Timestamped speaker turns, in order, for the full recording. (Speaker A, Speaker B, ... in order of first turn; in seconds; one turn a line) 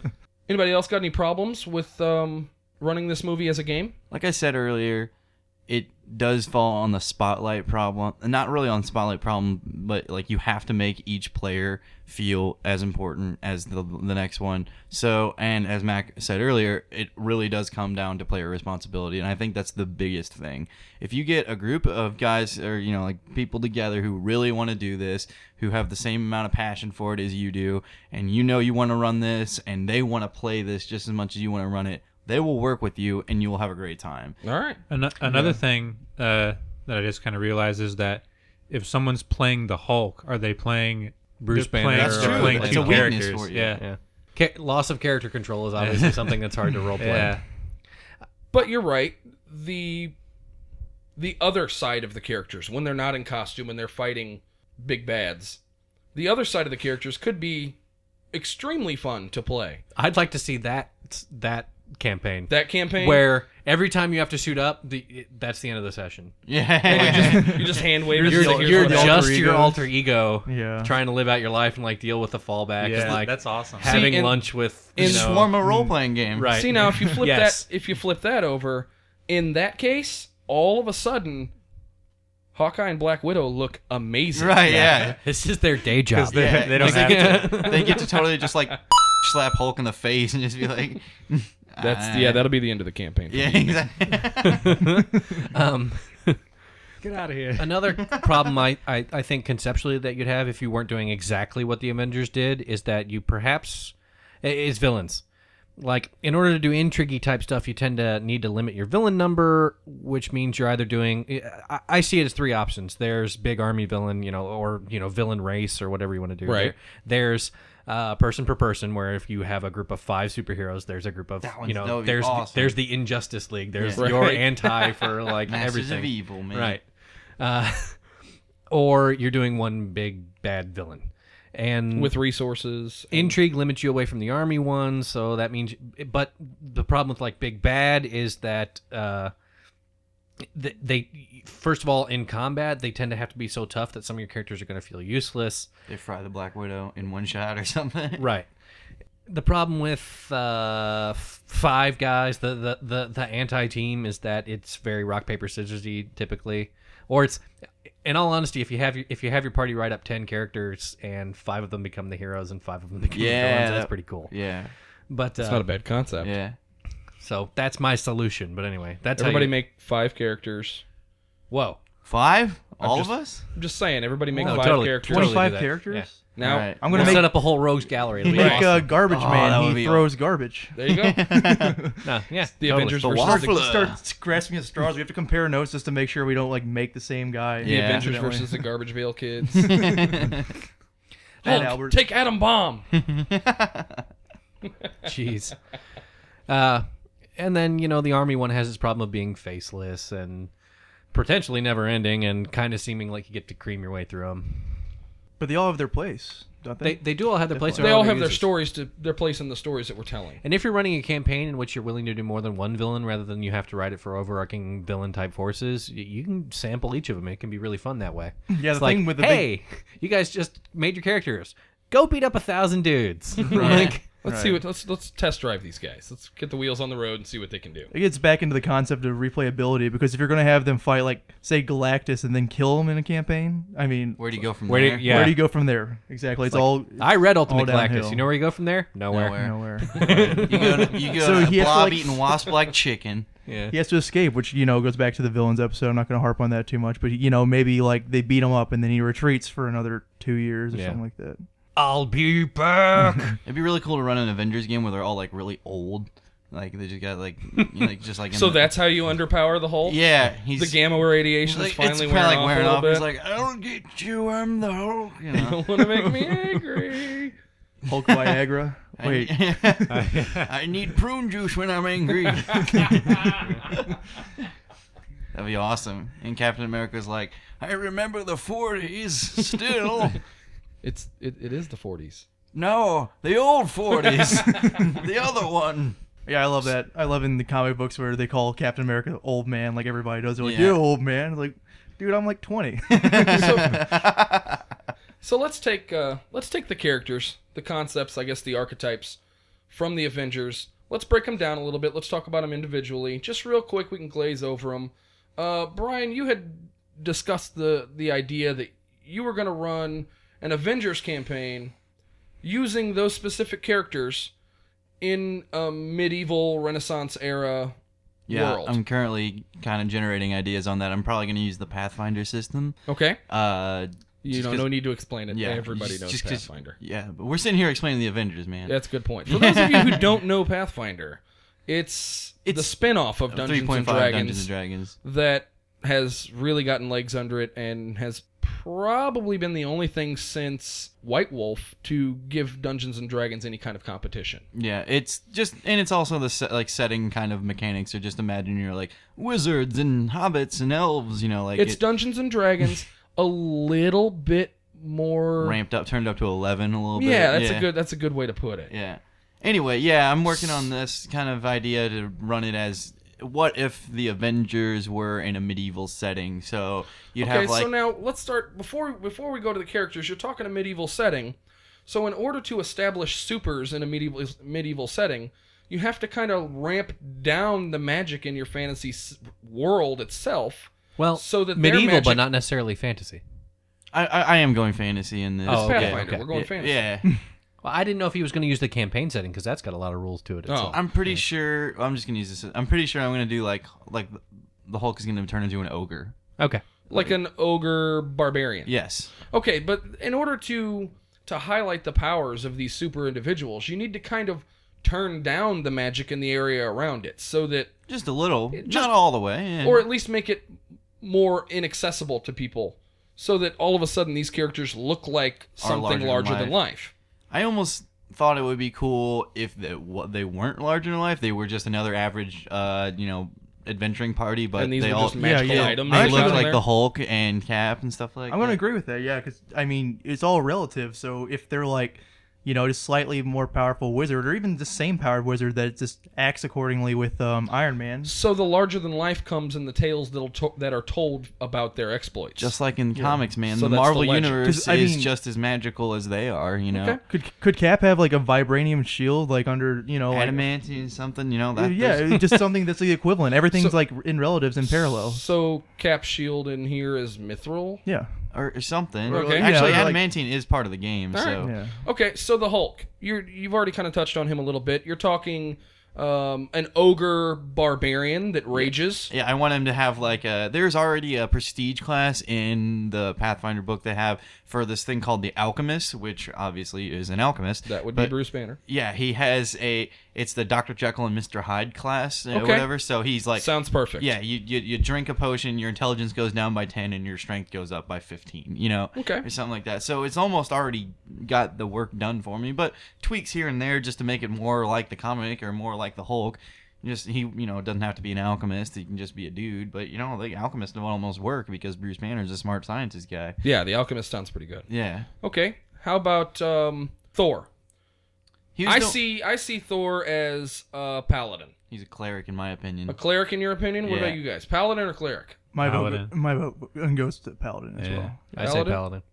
Speaker A: 0.5-3.9
Speaker B: 4.1-5.1
Speaker B: 5.7-34.4
Speaker A: 34.4-34.8
Speaker C: 34.9-43.8
Speaker D: 41.4-43.2
Speaker B: 41.9-43.8
Speaker D: 43.8-47.4
Speaker C: 45.8-46.4
Speaker C: 47.0-47.4
Speaker A: 48.5-50.1
Speaker A: 51.2-55.6
Speaker A: 56.1-57.8
Speaker A: 58.3-59.8
Speaker D: 59.9-66.3
Speaker A: 62.5-63.3
Speaker B: 66.5-67.8
Speaker A: 66.8-69.3
Speaker D: 66.9-67.2
Speaker E: 67.2-67.5
Speaker E: 68.1-69.9
Speaker D: 68.2-75.5
Speaker E: 70.4-70.9
Speaker C: 72.8-74.3
Speaker A: 73.8-75.3
Speaker B: 75.0-76.6
Speaker E: 75.6-75.9
Speaker D: 76.3-77.7
Speaker A: 76.5-81.5
Speaker A: 82.5-85.1
Speaker B: 84.3-85.2
Speaker D: 84.7-88.0
Speaker C: 86.1-87.9
Speaker B: 86.3-92.4
Speaker A: 87.9-88.6
Speaker A: 91.8-93.8
Speaker B: 93.3-94.9
Speaker D: 94.4-96.4
Speaker C: 97.0-97.8
Speaker D: 97.5-105.2
Speaker B: 98.0-98.6
Speaker D: 105.8-126.8
Speaker A: 116.4-116.7
Speaker B: 121.4-122.8
Speaker B: 123.8-124.3
Speaker A: 124.0-124.7
Speaker B: 125.5-126.8
Speaker D: 127.4-128.1
Speaker D: 128.7-132.1
Speaker A: 131.9-133.4
Speaker D: 133.1-139.3
Speaker D: 140.5-145.7
Speaker B: 145.9-148.2
Speaker D: 148.2-148.5
Speaker D: 149.3-157.4
Speaker D: 158.0-164.3
Speaker B: 163.0-164.7
Speaker D: 165.1-165.7
Speaker A: 165.4-166.3
Speaker B: 166.2-166.6
Speaker D: 167.2-169.5
Speaker A: 169.2-170.8
Speaker D: 171.5-171.8
Speaker B: 172.0-173.4
Speaker A: 173.5-175.4
Speaker E: 174.3-177.4
Speaker D: 174.4-176.1
Speaker A: 176.3-177.1
Speaker B: 176.4-177.3
Speaker D: 176.9-178.9
Speaker E: 178.2-182.0
Speaker A: 178.3-178.7
Speaker B: 178.4-180.1
Speaker A: 180.7-181.2
Speaker B: 180.9-181.8
Speaker D: 182.0-183.1
Speaker A: 182.6-183.6
Speaker B: 183.0-184.0
Speaker E: 183.2-188.6
Speaker B: 187.6-188.1
Speaker A: 187.6-190.0
Speaker B: 189.5-190.5
Speaker E: 189.6-190.3
Speaker E: 191.4-192.0
Speaker A: 191.4-192.8
Speaker B: 192.9-194.0
Speaker D: 195.0-195.6
Speaker D: 196.5-196.8
Speaker D: 197.3-200.5
Speaker D: 201.1-204.8
Speaker E: 205.4-208.0
Speaker D: 206.8-208.5
Speaker A: 207.8-210.4
Speaker D: 210.4-224.0
Speaker E: 218.5-219.5
Speaker A: 223.4-227.9
Speaker E: 223.5-224.6
Speaker B: 223.6-223.9
Speaker E: 227.9-238.3
Speaker B: 234.2-235.3
Speaker D: 234.7-235.4
Speaker D: 236.5-240.9
Speaker B: 239.1-243.3
Speaker E: 239.3-242.5
Speaker D: 243.5-243.8
Speaker E: 243.7-251.4
Speaker D: 250.7-251.0
Speaker D: 251.8-253.4
Speaker B: 253.4-258.7
Speaker A: 258.3-260.0
Speaker B: 259.8-266.1
Speaker A: 260.5-263.1
Speaker A: 265.3-267.3
Speaker E: 267.9-270.1
Speaker B: 269.0-274.0
Speaker C: 269.9-270.5
Speaker B: 275.3-280.2
Speaker A: 280.8-282.2
Speaker B: 282.5-286.0
Speaker E: 286.2-293.9
Speaker B: 290.4-290.8
Speaker B: 292.9-294.6
Speaker A: 293.2-293.8
Speaker A: 295.2-299.2
Speaker A: 299.7-311.7
Speaker A: 312.4-314.3
Speaker A: 315.0-317.7
Speaker A: 318.3-318.8
Speaker B: 318.3-322.8
Speaker A: 322.9-323.2
Speaker B: 323.3-324.7
Speaker A: 324.2-326.8
Speaker B: 325.3-328.7
Speaker A: 328.6-334.5
Speaker B: 329.2-330.0
Speaker B: 332.4-332.7
Speaker B: 333.3-334.9
Speaker A: 335.0-344.4
Speaker B: 344.5-351.8
Speaker A: 351.6-355.6
Speaker B: 355.4-357.7
Speaker A: 356.9-358.7
Speaker B: 358.7-367.7
Speaker A: 367.2-371.4
Speaker A: 371.9-382.2
Speaker D: 381.0-383.2
Speaker B: 383.9-387.1
Speaker D: 385.4-386.3
Speaker A: 385.5-386.8
Speaker D: 387.6-391.2
Speaker A: 390.5-390.8
Speaker B: 390.7-396.1
Speaker D: 396.4-396.6
Speaker A: 396.9-407.7
Speaker B: 398.6-399.1
Speaker B: 407.9-409.9
Speaker A: 408.5-408.9
Speaker A: 409.6-410.5
Speaker A: 411.0-416.9
Speaker B: 415.6-416.6
Speaker B: 417.3-428.6
Speaker A: 424.6-426.6
Speaker E: 425.2-426.6
Speaker E: 428.3-438.1
Speaker A: 438.0-442.6
Speaker B: 442.4-447.0
Speaker E: 442.9-443.2
Speaker A: 443.5-444.4
Speaker E: 444.4-445.1
Speaker A: 446.7-447.0
Speaker E: 447.1-450.5
Speaker B: 450.1-452.2
Speaker E: 451.5-455.2
Speaker A: 453.5-453.8
Speaker A: 454.7-457.8
Speaker E: 457.8-458.1
Speaker B: 458.3-461.5
Speaker A: 459.1-459.9
Speaker E: 459.1-460.0
Speaker A: 461.1-469.1
Speaker E: 461.4-461.8
Speaker B: 468.5-478.1
Speaker A: 477.6-478.6
Speaker B: 478.6-503.4
Speaker A: 482.3-482.7
Speaker A: 483.4-484.1
Speaker A: 488.9-489.2
Speaker A: 503.4-504.7
Speaker B: 504.7-505.1
Speaker A: 505.2-507.5
Speaker B: 508.5-509.0
Speaker A: 508.6-511.5
Speaker B: 511.7-513.0
Speaker A: 512.9-515.4
Speaker B: 513.8-514.2
Speaker E: 515.5-518.2
Speaker C: 515.6-516.1
Speaker C: 517.8-518.1
Speaker D: 518.3-519.0
Speaker A: 518.3-518.8